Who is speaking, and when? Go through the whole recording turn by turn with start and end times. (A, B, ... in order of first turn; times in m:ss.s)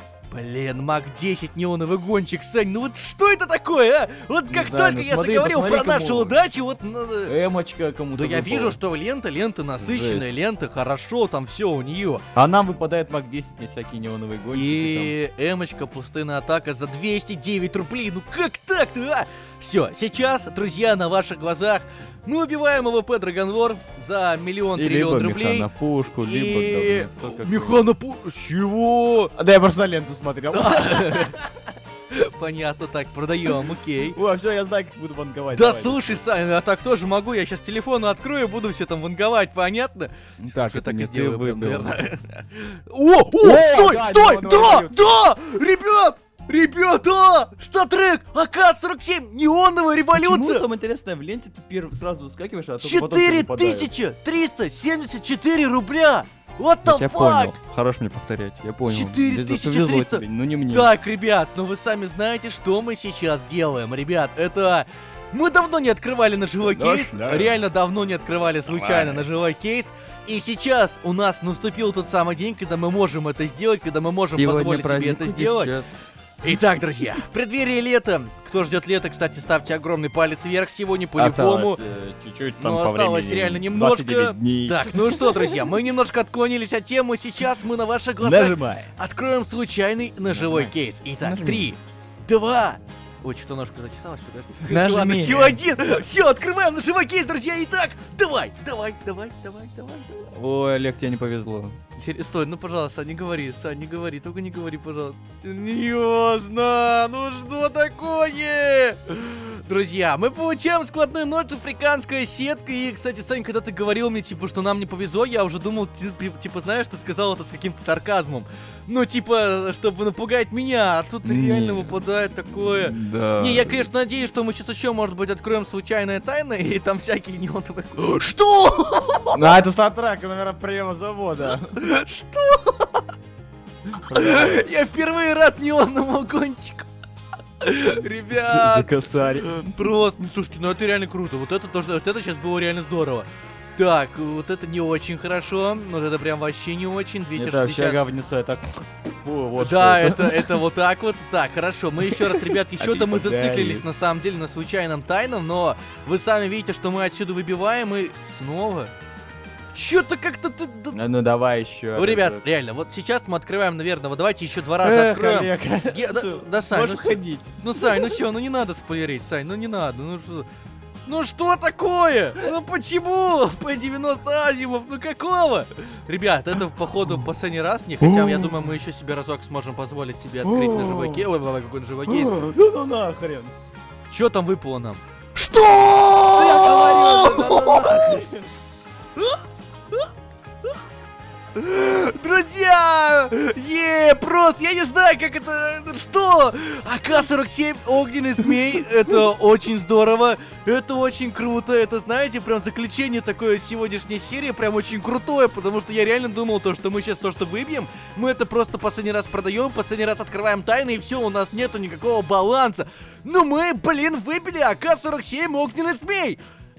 0:00.3-0:07.4 A
0:04.5-0:06.4 B
0:07.2-0:08.8 B
0:08.2-0:12.2 A
0:09.8-0:10.3 B
0:12.4-0:15.2 B
0:14.5-0:29.3 A
0:24.8-0:27.9 B
0:29.4-0:31.4 B
0:30.5-0:31.6 A
0:32.1-0:34.2 A
0:34.1-0:36.2 B
0:35.5-0:50.6 A
0:40.4-0:42.0 B
0:43.4-0:45.2 B
0:50.1-0:53.9 B
0:52.8-0:57.6 A
0:56.8-1:00.9 B
0:58.9-1:15.7 A
1:06.6-1:07.6 B
1:08.7-1:09.2 B
1:14.4-1:15.9 B
1:16.4-1:21.8 A
1:21.2-1:25.7 B
1:22.6-1:40.3 A
1:28.2-1:28.9 B
1:30.3-1:31.7 B
1:34.6-1:35.7 B
1:40.3-1:41.8 B
1:42.0-2:09.4 A
2:01.2-2:02.0 B
2:02.6-2:03.9 B
2:09.3-2:11.8 B
2:11.7-2:13.1 A
2:14.0-2:14.6 B
2:14.1-2:16.9 A
2:17.6-2:18.9 A
2:18.4-2:19.7 B
2:19.4-2:28.0 A
2:27.4-2:30.6 B
2:29.6-2:38.9 A
2:32.1-2:33.8 B
2:39.7-2:41.0 A
2:40.9-2:42.4 B
2:42.0-2:50.5 A
2:44.8-2:48.2 B
2:51.1-3:02.5 A
3:00.4-3:01.2 B
3:02.1-3:03.5 B
3:04.1-3:08.2 A
3:06.3-3:08.5 B
3:11.6-3:36.4 A